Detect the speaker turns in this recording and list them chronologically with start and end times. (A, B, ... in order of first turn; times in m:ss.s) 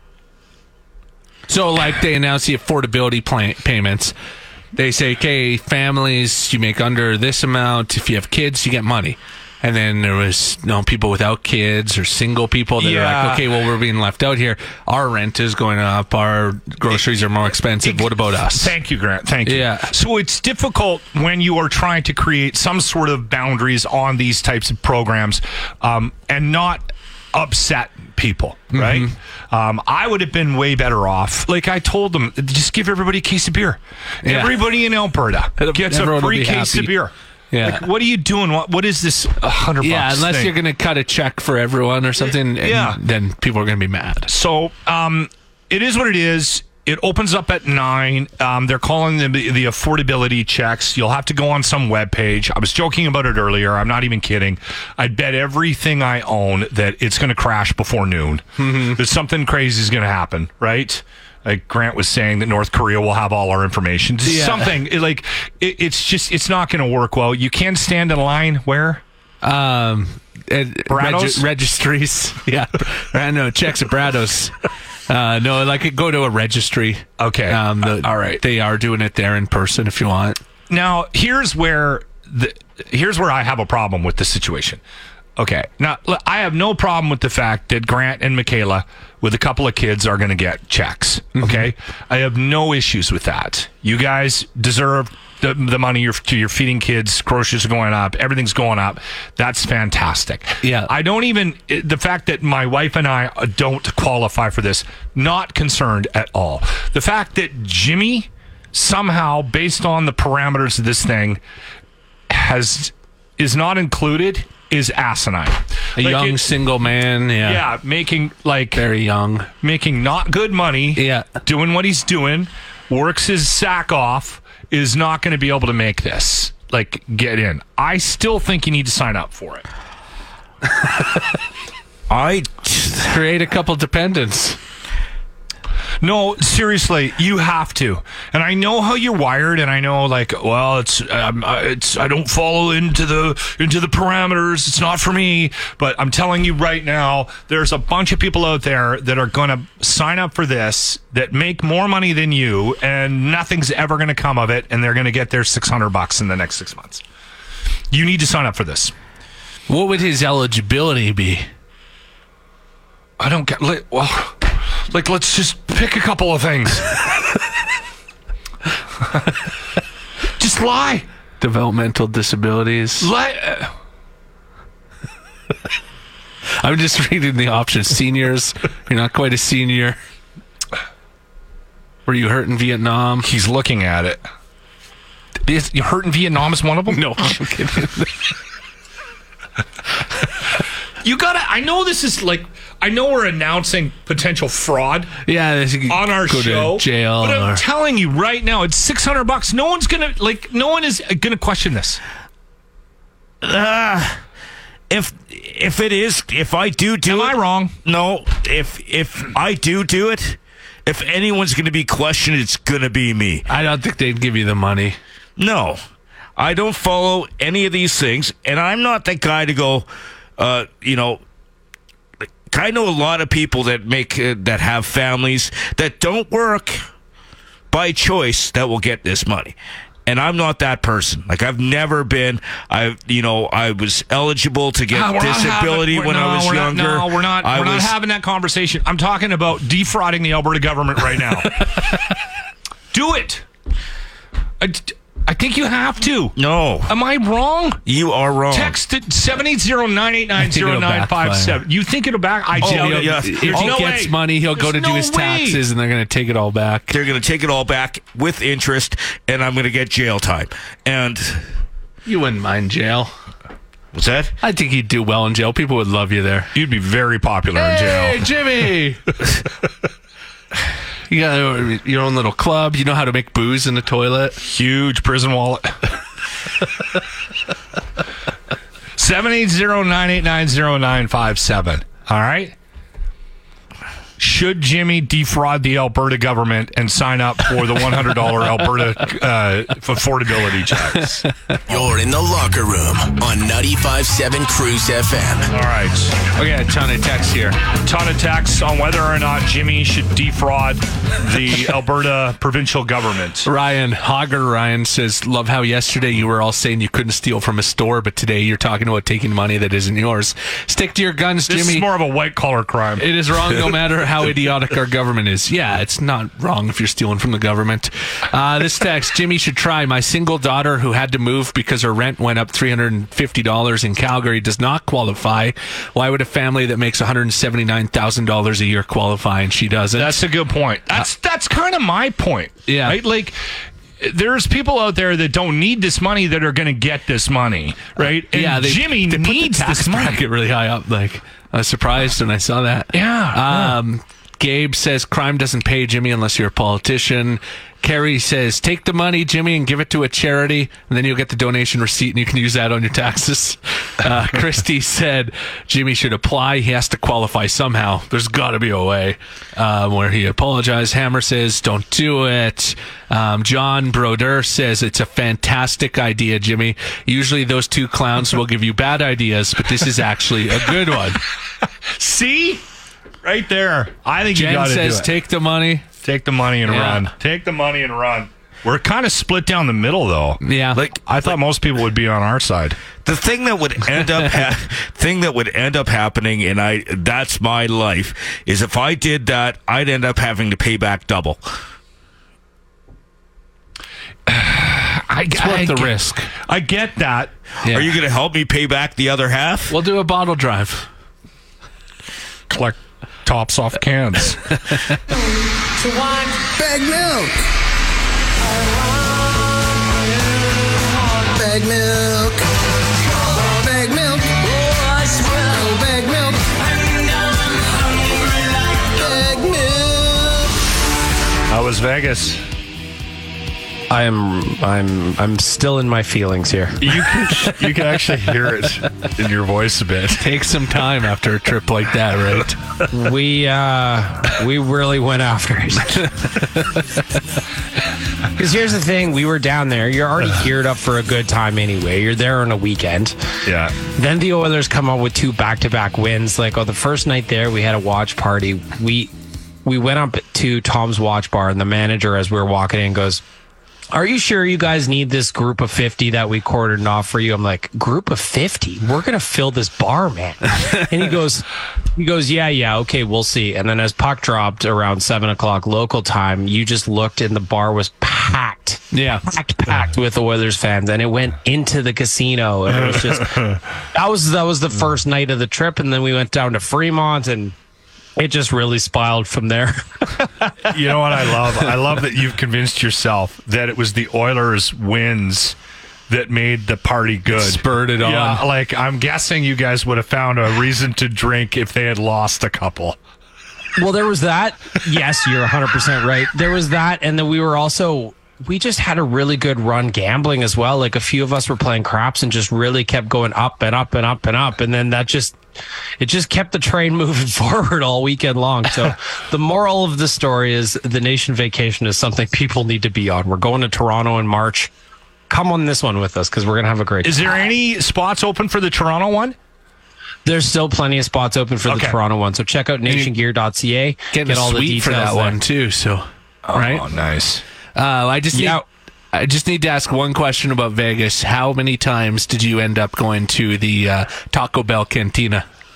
0:01.5-0:04.1 A
0:04.8-0:18.7 A
0:12.8-0:13.5 B
0:17.6-0:40.5 B
0:19.5-0:19.9 A
0:28.7-0:29.1 A
0:34.2-0:34.6 A
0:35.6-0:36.9 A
0:37.5-0:37.8 A
0:39.8-0:44.3 A
0:42.6-0:43.0 B
0:44.3-1:09.0 B
0:58.6-0:59.0 A
1:04.2-1:04.7 A
1:09.4-1:14.6 A
1:10.9-1:11.5 B
1:15.1-1:20.4 A
1:17.2-1:18.4 B
1:20.7-1:24.8 B
1:25.4-1:51.4 B
1:31.4-1:31.7 A
1:40.6-1:40.9 A
1:52.3-1:56.4 B
1:56.0-1:57.6 A
1:57.4-1:58.9 B
1:58.7-1:59.5 A
1:59.6-2:09.7 B
2:01.0-2:01.3 A
2:12.1-2:13.1 C
2:13.0-2:14.6 A
2:16.0-2:37.0 B
2:37.9-2:38.9 B
2:39.7-2:41.5 A
2:43.2-2:47.1 B
2:50.4-2:51.1 B
2:51.4-2:53.1 A
2:53.0-2:53.7 B
2:56.6-3:00.0 A
3:02.1-3:03.3 A
3:03.2-3:04.2 B
3:05.5-3:07.1 B
3:06.9-3:08.1 A
3:11.0-3:15.1 B
3:15.3-3:17.6 A
3:15.9-3:22.0 B
3:23.4-3:24.2 C
3:24.9-3:33.5 C
3:27.1-3:27.8 B
3:33.5-3:35.0 A
3:35.4-3:35.8 C
3:36.4-3:41.2 C
3:42.5-3:46.8 C
3:47.7-3:57.9 C
3:54.9-4:02.0 B
4:02.9-4:03.4 B
4:04.6-4:07.8 B
4:06.4-4:06.9 C
4:07.9-4:08.8 C
4:08.5-4:15.6 B
4:10.4-4:11.6 A
4:12.6-4:13.9 C
4:12.6-4:16.9 A
4:16.9-4:21.5 C
4:22.0-4:23.1 A
4:23.9-4:24.3 C
4:24.4-4:26.5 A
4:26.6-4:28.3 B
4:27.6-4:29.1 A
4:31.1-4:34.4 A
4:34.4-4:35.8 B
4:39.0-4:42.6 B
4:44.2-4:51.3 B
4:51.7-4:55.5 D
4:55.5-4:56.2 B
4:56.3-4:57.6 A
4:57.8-5:03.5 B
5:03.4-5:11.9 A
5:11.5-5:13.1 B
5:13.0-5:30.2 A
5:30.0-5:33.4 B
5:32.7-5:33.0 A
5:34.0-5:40.2 B
5:38.0-6:11.2 A
5:42.9-5:43.8 B
6:12.0-6:12.6 B
6:13.2-6:15.1 B
6:14.3-6:15.9 A
6:16.0-6:22.8 B
6:16.7-6:17.0 A
6:20.4-6:20.8 A
6:23.0-6:31.4 C
6:34.3-6:37.3 B
6:35.3-6:36.3 A
6:37.6-6:37.9 A
6:37.7-6:39.8 C
6:39.7-6:40.9 A
6:42.5-6:44.6 B
6:45.8-6:47.4 E
6:48.6-6:52.5 E
6:53.1-7:00.5 E
7:01.5-7:02.4 B
7:03.9-7:06.8 F
7:06.8-7:10.2 B
7:10.2-7:12.6 A
7:12.9-7:16.2 F
7:18.4-7:23.2 F
7:23.5-7:23.8 B
7:23.8-7:29.1 F
7:29.6-7:33.2 F
7:33.9-7:53.4 F
7:48.9-7:49.2 A
7:52.8-7:53.6 B
7:53.9-7:57.6 F
7:58.2-8:00.3 F
8:00.6-8:05.6 B
8:06.1-8:13.0 B
8:07.3-8:08.4 A
8:13.8-8:25.4 F
8:26.0-8:34.7 F
8:35.3-8:37.5 F
8:37.0-8:39.4 B
8:40.2-8:45.4 F
8:41.7-8:42.0 B
8:44.1-8:46.8 A
8:46.5-8:47.4 B
8:47.8-8:48.6 A
8:48.3-8:48.6 F
8:49.1-8:55.4 A